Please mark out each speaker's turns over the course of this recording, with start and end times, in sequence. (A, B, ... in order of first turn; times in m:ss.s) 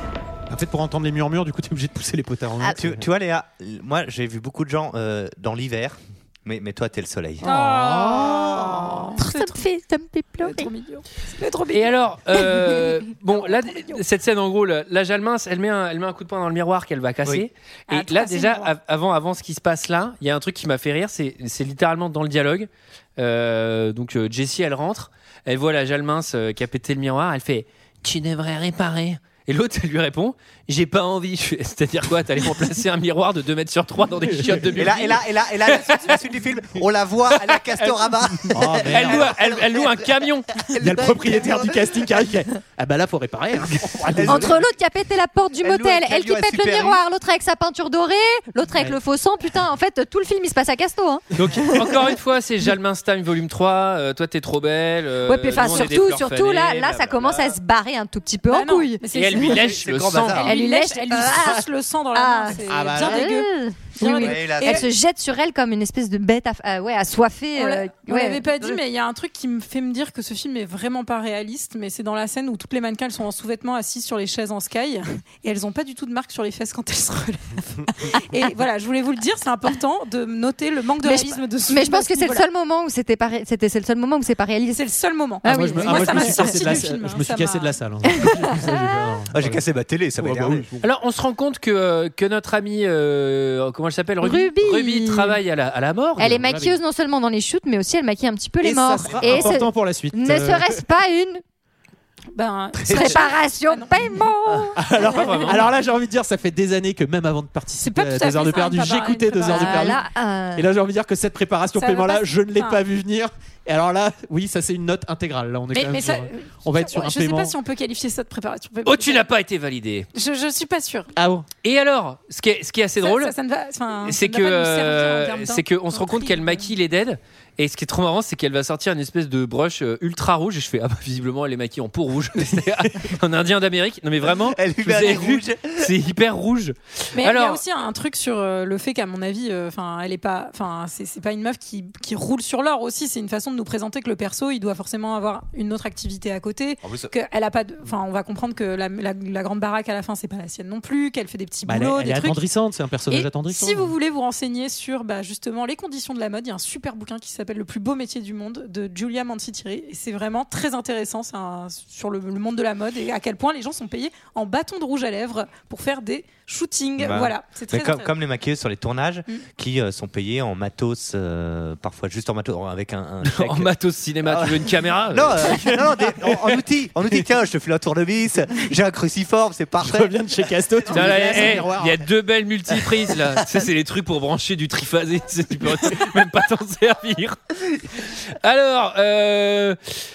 0:00.5-0:03.0 A
0:02.8-0:07.4 B
0:07.4-0:09.6 C
0:07.4-0:09.0 A
0:09.2-0:10.7 D
0:10.4-0:14.0 C
0:11.7-0:36.1 E
0:17.9-0:18.7 C
0:34.3-0:34.8 A
0:34.8-0:41.9 B
0:37.4-0:38.0 E
0:38.5-0:39.4 A
0:38.8-0:40.5 E
0:40.8-0:44.6 A
0:44.1-0:44.7 B
0:44.3-0:52.1 D
0:45.6-0:47.0 B
0:51.4-0:57.6 E
0:55.3-0:59.0 D
0:58.5-0:59.8 C
0:59.1-1:00.5 E
0:59.4-1:00.6 B
1:00.4-1:04.9 C
1:00.4-1:08.8 D
1:02.7-1:03.3 A
1:04.1-1:04.9 B
1:07.6-1:22.4 C
1:21.0-1:24.8 D
1:24.7-1:27.8 C
1:25.4-1:26.7 D
1:25.4-1:29.7 A
1:28.1-1:28.9 D
1:29.3-1:30.7 B
1:30.2-1:30.9 A
1:30.8-1:36.4 E
1:34.2-1:35.4 D
1:36.2-1:41.4 D
1:36.3-1:36.8 A
1:38.6-1:40.8 A
1:39.1-1:39.6 B
1:42.4-1:44.3 C
1:42.9-1:43.3 B
1:42.9-1:44.8 D
1:44.8-1:50.0 A
1:45.0-1:45.7 E
1:47.8-1:50.0 C
1:49.5-1:50.7 D
1:50.6-1:57.6 A
1:51.8-1:52.8 C
1:55.7-1:59.3 C
1:58.8-2:00.1 E
2:00.1-2:01.1 C
2:01.2-2:01.5 A
2:01.6-2:03.3 E
2:03.0-2:06.7 C
2:04.0-2:17.6 E
2:14.3-2:15.9 B
2:17.2-2:32.4 C
2:26.8-2:27.1 B
2:31.6-2:33.9 A
2:33.1-2:48.1 C
2:47.0-2:53.7 B
2:53.2-2:55.7 E
2:54.2-3:00.2 B
2:55.5-2:57.3 A
2:59.8-3:02.0 A
3:00.9-3:01.6 B
3:00.9-3:07.4 E
3:08.1-3:09.8 E